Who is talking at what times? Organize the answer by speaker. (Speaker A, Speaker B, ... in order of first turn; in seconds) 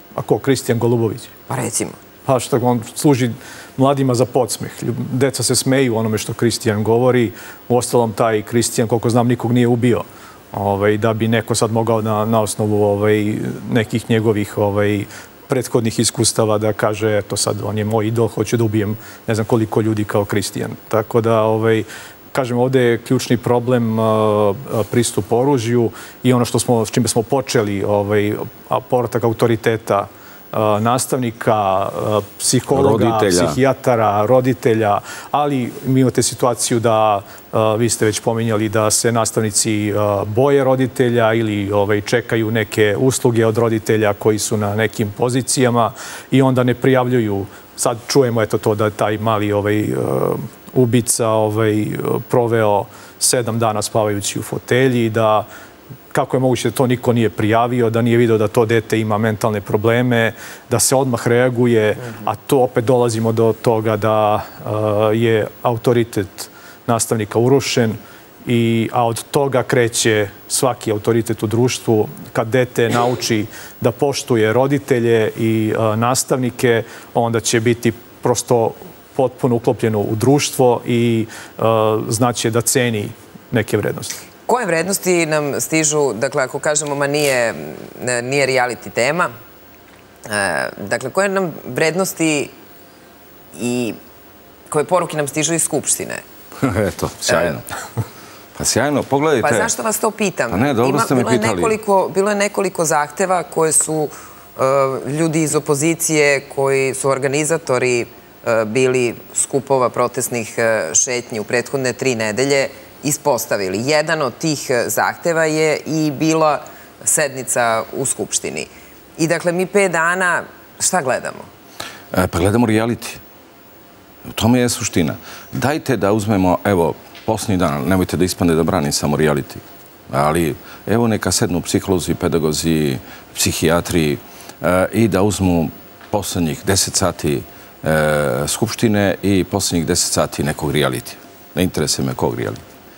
Speaker A: 0.1-1.3, 2.2-55.5, 56.1-84.2
Speaker B: 1.5-2.0, 84.5-89.3, 90.2-92.5, 93.5-94.0, 94.7-96.2, 99.4-121.5
Speaker C: 32.7-33.6, 96.6-97.6, 98.5-99.7, 100.5-101.8, 122.1-123.2, 124.2-142.6